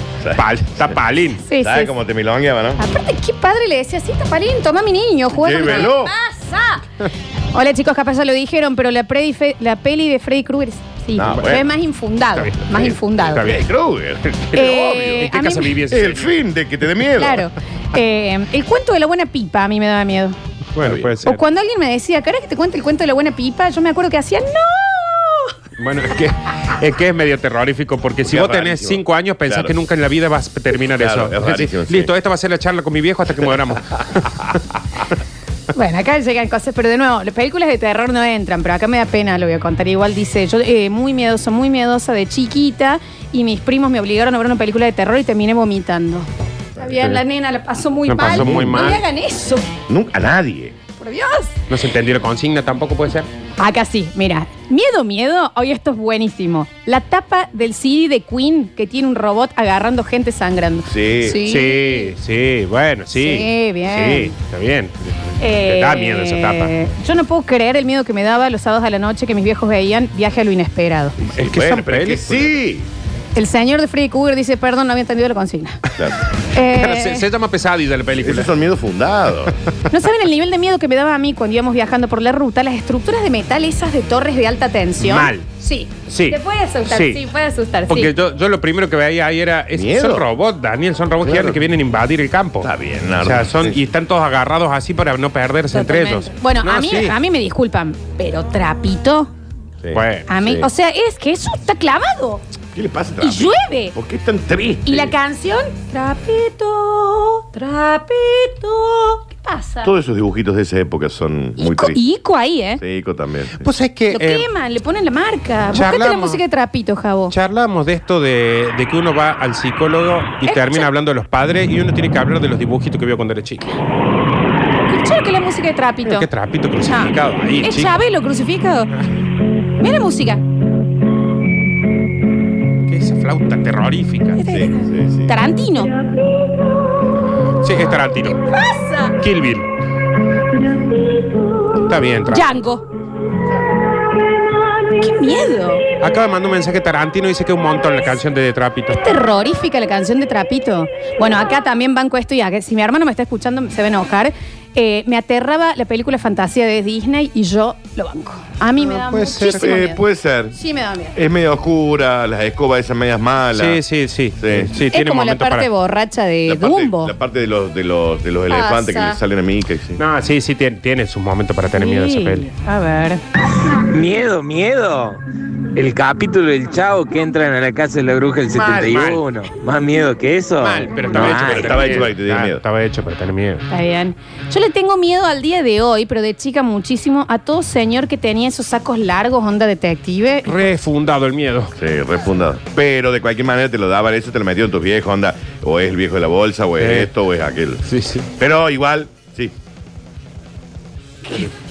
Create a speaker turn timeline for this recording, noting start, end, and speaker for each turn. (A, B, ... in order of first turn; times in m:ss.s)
0:00.2-0:01.0 A
0:00.4-0:01.4 B
0:01.4-0:01.9 C
0:01.6-0:02.8 A
0:02.8-0:06.8 C
0:05.3-0:06.1 A
0:07.5-0:13.5 C
0:11.2-0:11.7 A
0:12.3-0:13.6 B
0:12.7-0:15.3 A
0:14.5-0:15.8 C
0:14.5-0:16.3 B
0:15.9-0:17.5 A
0:17.2-0:20.4 C
0:20.7-0:21.4 B
0:20.8-0:21.2 A
0:21.2-0:25.5 C
0:25.8-0:34.6 B
0:28.2-0:29.8 A
0:30.9-0:32.1 A
0:35.7-0:49.7 C
0:48.1-0:49.0 B
0:48.2-0:49.0 A
0:49.9-0:50.8 A
0:51.0-0:51.6 C
0:51.7-0:53.3 B
0:53.6-1:02.1 C
1:00.8-1:01.4 A
1:01.4-1:06.7 B
1:03.1-1:04.3 C
1:05.4-1:11.2 C
1:11.2-1:12.9 A
1:11.3-1:12.5 B
1:13.3-1:15.8 C
1:16.5-1:17.2 C
1:16.6-1:18.5 B
1:18.2-1:19.5 A
1:19.9-1:28.1 C
1:25.0-1:25.4 B
1:26.1-1:27.2 B
1:27.9-1:32.7 B
1:29.7-1:30.3 A
1:31.2-1:31.6 A
1:32.6-1:33.8 A
1:33.2-1:37.1 B
1:35.7-1:39.3 C
1:39.8-1:40.7 A
1:39.9-1:40.3 B
1:40.3-1:42.4 C
1:42.7-1:45.1 A
1:43.2-1:43.9 C
1:44.8-1:49.9 C
1:49.8-1:52.0 A
1:51.6-1:52.8 C
1:52.8-1:53.7 A
1:53.6-1:54.4 B
1:54.1-1:57.3 C
1:55.7-1:56.4 B
1:57.3-2:03.7 B
2:00.4-2:00.9 C
2:04.9-2:06.3 C
2:06.0-2:07.9 B
2:06.8-2:08.9 C
2:09.8-2:10.4 C
2:12.9-2:14.4 B
2:14.4-2:15.9 C
2:14.4-2:15.4 A
2:17.6-2:18.4 B
2:18.4-2:19.2 C
2:19.2-2:19.7 B
2:21.7-2:22.6 B
2:22.3-2:22.8 C
2:25.0-2:25.8 C
2:26.0-2:29.2 B
2:28.9-2:40.0 C
2:38.9-2:39.7 B
2:39.5-2:40.5 A
2:40.5-2:41.2 C
2:41.1-2:43.8 A
2:43.5-2:45.7 B
2:44.4-2:44.7 A
2:44.9-2:47.1 C
2:46.5-2:50.0 A
2:48.5-2:49.2 C
2:50.0-2:52.4 B
2:51.8-2:53.2 C
2:53.9-2:55.2 D
2:55.7-3:01.9 D
2:58.5-2:59.1 A
2:58.8-2:59.2 B
3:00.6-3:03.6 B
3:01.1-3:02.6 A
3:03.7-3:10.5 C
3:10.4-3:11.7 B
3:11.8-3:19.5 A
3:16.8-3:17.1 B
3:17.9-3:18.3 B